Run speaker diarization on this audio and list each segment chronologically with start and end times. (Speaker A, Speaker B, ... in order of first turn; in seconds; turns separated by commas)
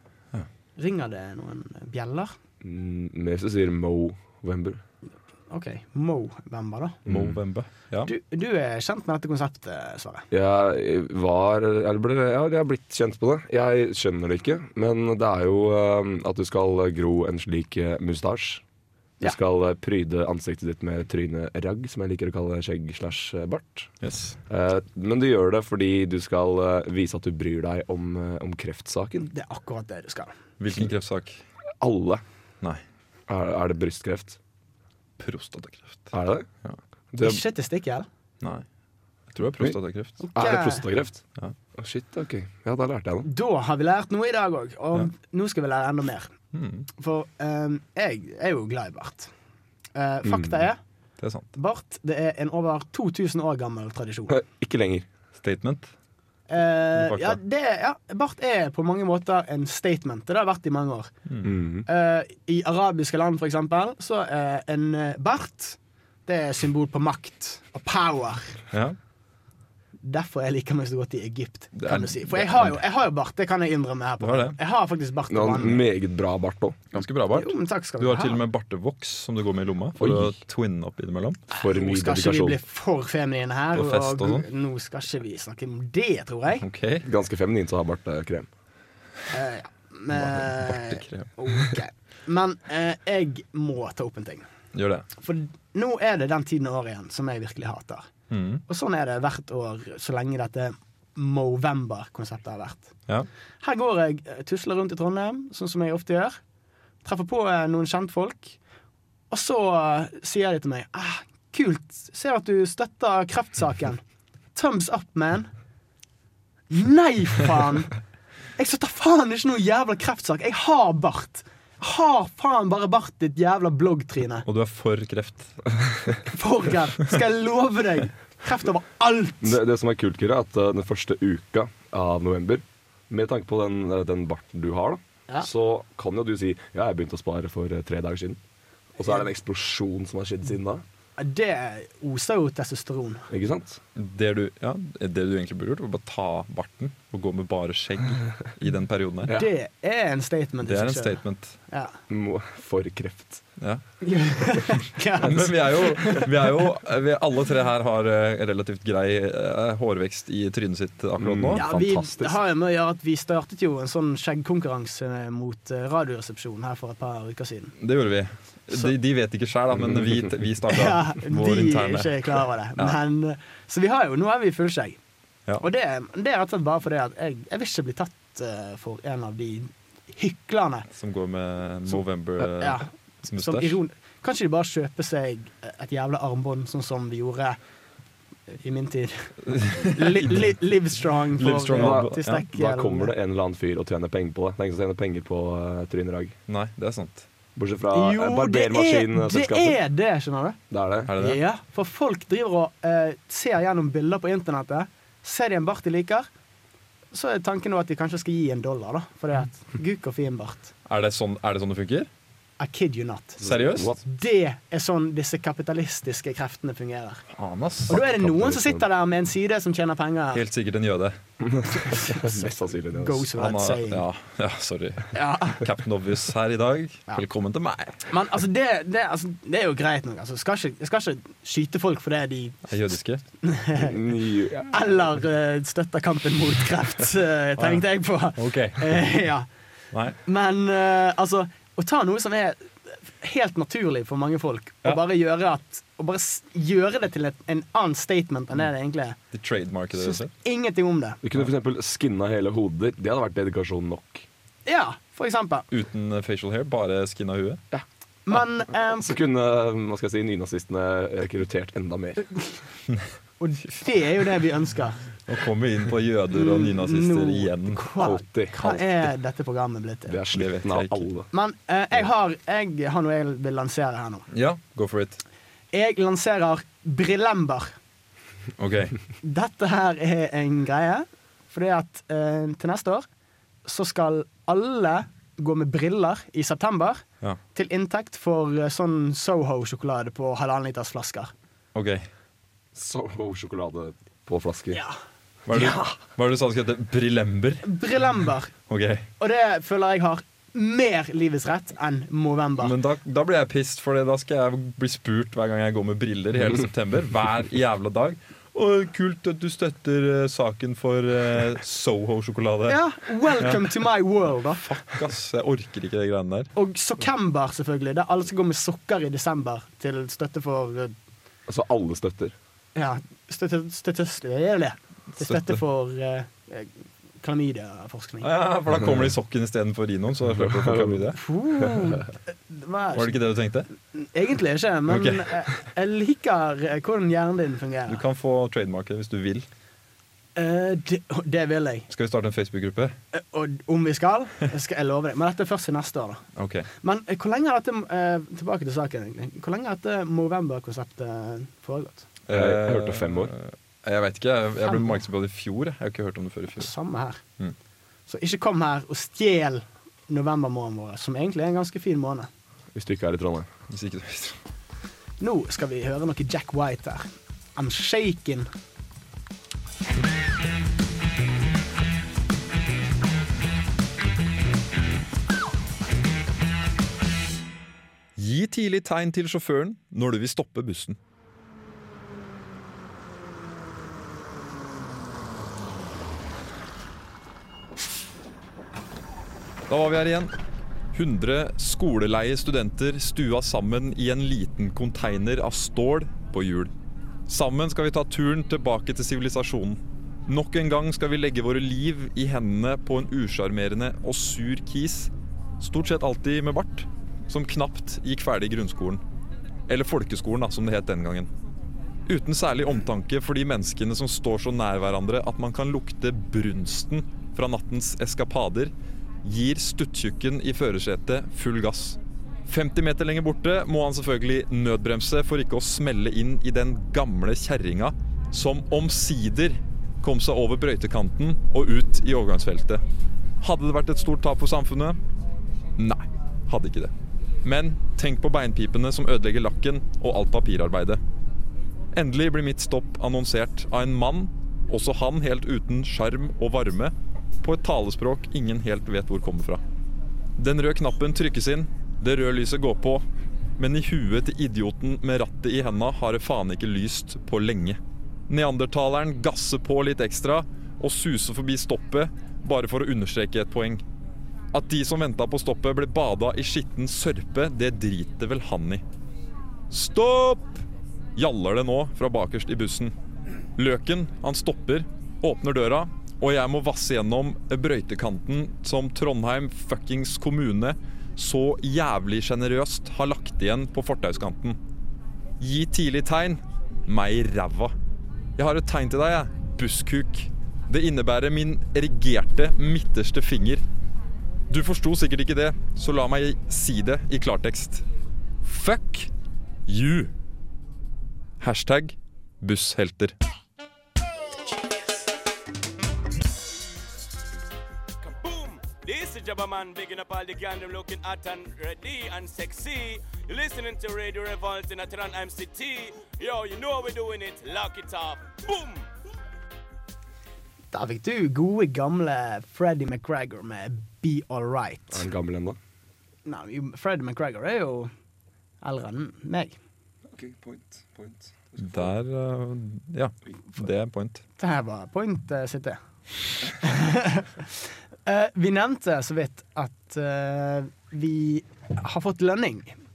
Speaker A: 0.8-2.3, Speaker B: 2.6-4.8, Speaker A: 5.5-7.0, Speaker B: 7.0-7.4, Speaker C: 7.0-8.1, Speaker A: 8.0-10.2, Speaker B: 10.3-18.6, Speaker B: 19.2-23.9, Speaker C: 24.0-24.4, Speaker B: 24.5-29.3, Speaker A: 29.3-30.3, Speaker C: 30.6-31.4, Speaker B: 31.8-32.2, Speaker B: 33.3-34.4, Speaker C: 35.2-36.1, Speaker B: 36.1-36.5, Speaker B: 37.1-37.4, Speaker A: 37.2-38.1, Speaker C: 39.3-40.2, Speaker A: 40.2-40.9, Speaker B: 40.4-41.2, Speaker B: 41.7-43.3, Speaker A: 43.2-46.3, Speaker C: 46.5-46.9, Speaker A: 47.0-49.3, Speaker A: 49.9-50.8, Speaker B: 50.2-50.5, Speaker C: 51.2-51.5, Speaker A: 51.5-54.4, Speaker B: 54.3-55.0, Speaker C: 55.4-55.9, Speaker A: 56.5-61.1, Speaker C: 57.0-57.4, Speaker B: 61.4-61.9, Speaker A: 61.9-68.6, Speaker C: 68.7-69.0, Speaker A: 70.0-75.8, Speaker C: 71.8-72.8, Speaker C: 74.2-74.6, Speaker B: 75.3-76.8, Speaker C: 76.9-81.4, Speaker A: 77.3-78.4, Speaker B: 80.0-80.3, Speaker B: 81.5-82.6, Speaker A: 81.5-86.6, Speaker C: 83.7-84.5, Speaker C: 86.6-87.0, Speaker B: 87.0-88.5, Speaker A: 89.3-94.4, Speaker C: 90.1-91.3, Speaker C: 94.7-95.1, Speaker A: 95.2-98.1, Speaker C: 98.3-98.6, Speaker A: 98.7-102.9, Speaker A: 103.6-106.4, Speaker A: 107.0-108.6, Speaker A: 109.3-114.0, Speaker A: 114.5-115.5, Speaker A: 116.7-117.9, Speaker A: 118.6-124.5, Speaker C: 124.5-125.6, Speaker A: 126.2-129.6, Speaker B: 129.4-138.4, Speaker B: 139.0-140.8, Speaker A: 141.2-143.2, Speaker B: 143.3-143.8, Speaker C: 143.9-149.3, Speaker A: 149.3-151.9, Speaker C: 150.6-151.6, Speaker B: 152.1-153.4, Speaker A: 154.0-156.3, Speaker C: 155.2-161.7, Speaker B: 161.2-162.4, Speaker A: 161.5-167.7, Speaker C: 167.8-172.2, Speaker A: 170.7-175.0, Speaker A: 175.6-180.9, Speaker C: 180.9-183.8, Speaker A: 182.4-187.6, Speaker A: 188.5-193.1, Speaker C: 189.5-190.5, Speaker C: 191.4-192.4, Speaker B: 191.7-196.3, Speaker C: 196.5-197.2, Speaker B: 197.6-199.8, Speaker A: 197.9-200.6, Speaker B: 200.7-201.1, Speaker C: 201.1-201.4, Speaker A: 201.1-206.3, Speaker A: 207.1-210.7, Speaker C: 210.8-212.1, Speaker A: 212.6-213.4, Speaker C: 213.4-213.9, Speaker B: 213.4-214.0, Speaker A: 214.0-217.2, Speaker C: 217.3-218.0, Speaker A: 217.9-220.4, Speaker B: 217.9-218.8, Speaker C: 220.3-221.2, Speaker B: 221.4-223.3, Speaker A: 221.7-224.0, Speaker C: 223.3-228.0, Speaker A: 225.1-225.6, Speaker A: 228.1-232.7, Speaker C: 232.7-233.2, Speaker A: 233.4-239.5, Speaker B: 233.8-234.7, Speaker C: 237.6-237.8, Speaker C: 238.4-239.0, Speaker C: 239.9-240.2, Speaker A: 240.2-249.2, Speaker C: 249.3-250.3, Speaker A: 250.4-251.2, Speaker B: 251.2-254.2, Speaker A: 254.7-255.7, Speaker C: 255.7-257.6, Speaker A: 258.3-259.1, Speaker B: 259.0-262.3, Speaker A: 263.4-265.0, Speaker C: 265.3-267.9, Speaker A: 266.3-270.2, Speaker B: 268.0-268.9, Speaker B: 270.1-271.3, Speaker C: 270.3-271.1, Speaker A: 271.3-274.3, Speaker C: 274.3-275.2, Speaker A: 275.7-277.7, Speaker C: 278.6-278.9, Speaker A: 279.2-283.1, Speaker A: 283.6-287.0, Speaker A: 287.5-291.3, Speaker C: 291.7-292.1, Speaker B: 292.7-294.8, Speaker C: 295.5-297.7, Speaker B: 295.5-295.9, Speaker A: 297.6-298.5, Speaker C: 298.7-299.1, Speaker A: 299.2-302.7, Speaker C: 302.6-313.7, Speaker A: 312.7-314.8, Speaker C: 314.6-316.5, Speaker A: 316.6-320.9, Speaker B: 321.5-322.3, Speaker A: 322.8-328.3, Speaker C: 325.2-325.6, Speaker C: 328.2-331.2, Speaker B: 330.4-331.1, Speaker A: 331.1-333.2, Speaker C: 332.9-333.7, Speaker A: 333.9-338.0, Speaker C: 334.9-335.3, Speaker C: 337.9-339.5, Speaker A: 340.4-341.9, Speaker C: 341.9-342.9, Speaker A: 343.1-346.2, Speaker C: 346.4-346.7, Speaker A: 346.8-352.1, Speaker C: 352.3-356.7, Speaker B: 352.3-353.3, Speaker A: 354.6-354.9, Speaker A: 356.6-357.2, Speaker A: 358.1-362.3, Speaker B: 362.7-363.5, Speaker C: 363.7-364.4, Speaker A: 365.2-368.5, Speaker C: 378.2-381.0, Speaker C: 389.7-390.3, Speaker C: 390.9-396.7, Speaker C: 397.3-409.0, Speaker C: 409.7-411.3, Speaker C: 412.1-418.7, Speaker C: 419.2-432.8, Speaker C: 433.4-435.0, Speaker C: 435.8-441.0, Speaker C: 441.9-449.6, Speaker C: 450.4-453.0, Speaker C: 453.6-463.8, Speaker C: 464.5-468.8, Speaker C: 469.7-470.6, Speaker C: 471.1-472.9, Speaker C: 473.6-484.6, Speaker C: 485.4-487.7, Speaker C: 488.4-493.6, Speaker C: 494.5-497.9, Speaker C: 498.4-499.1, Speaker C: 499.6-500.1, Speaker C: 501.4-503.1, Speaker D: 508.0-518.9, Speaker A: 520.7-525.0, Speaker B: 524.9-525.6, Speaker A: 526.2-527.9, Speaker A: 528.6-529.5, Speaker B: 530.1-531.9, Speaker C: 531.6-534.2, Speaker A: 534.4-535.8, Speaker A: 536.6-542.7